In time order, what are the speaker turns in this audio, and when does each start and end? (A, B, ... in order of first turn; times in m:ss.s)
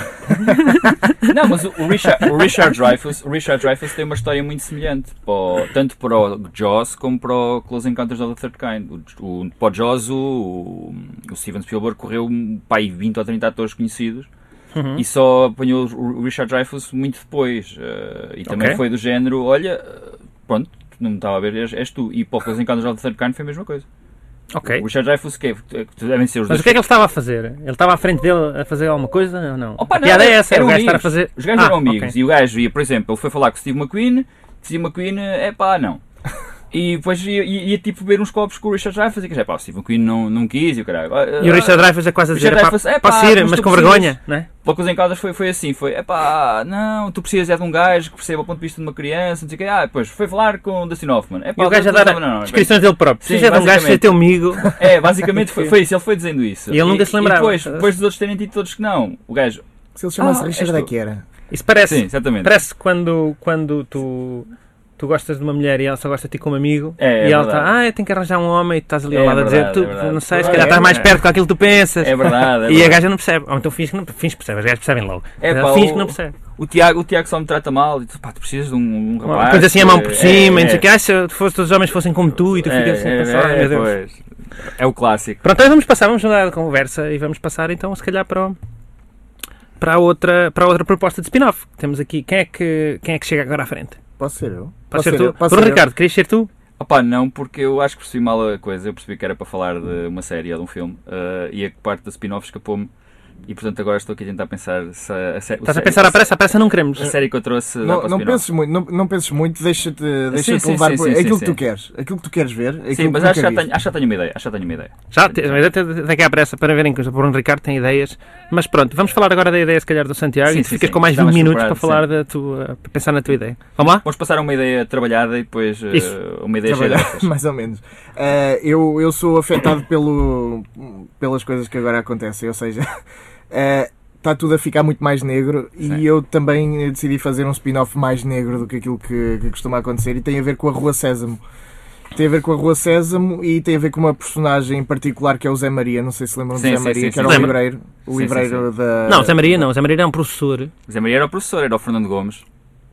0:00.3-0:01.1 A
0:01.2-0:14.3 B
0:14.7-0:15.0 A
0:15.0-0:23.8 B
0:18.5-0:18.8 A
0:24.5-0:24.8 A
0:24.7-0:26.8 B
0:26.5-0:32.1 A
0:29.8-0:36.0 B
0:36.7-0:59.6 B
0:41.4-0:44.5 A
0:51.6-0:54.7 A
0:56.7-0:57.9 A
1:00.0-1:01.2 C
1:00.2-1:00.9 B
1:01.5-1:16.4 A
1:01.8-1:02.5 B
1:07.0-1:07.7 B
1:09.1-1:11.1 B
1:10.4-1:10.9 C
1:12.0-1:13.0 B
1:15.4-1:20.8 B
1:19.2-1:23.9 A
1:22.6-1:25.4 B
1:25.4-1:28.6 A
1:29.8-1:34.0 A
1:34.2-1:35.8 C
1:34.9-1:36.5 A
1:36.8-1:42.9 B
1:43.4-1:46.3 B
1:45.6-1:47.1 A
1:47.0-1:48.5 B
1:47.8-1:53.7 C
1:50.3-1:51.6 B
1:52.9-1:55.7 B
1:55.1-2:04.0 A
2:00.4-2:02.0 B
2:04.0-2:07.3 B
2:06.6-2:12.9 C
2:13.5-2:21.4 C
2:22.1-2:29.6 C
2:26.5-2:28.7 B
2:27.2-2:27.5 A
2:29.1-2:30.7 A
2:30.9-2:32.4 B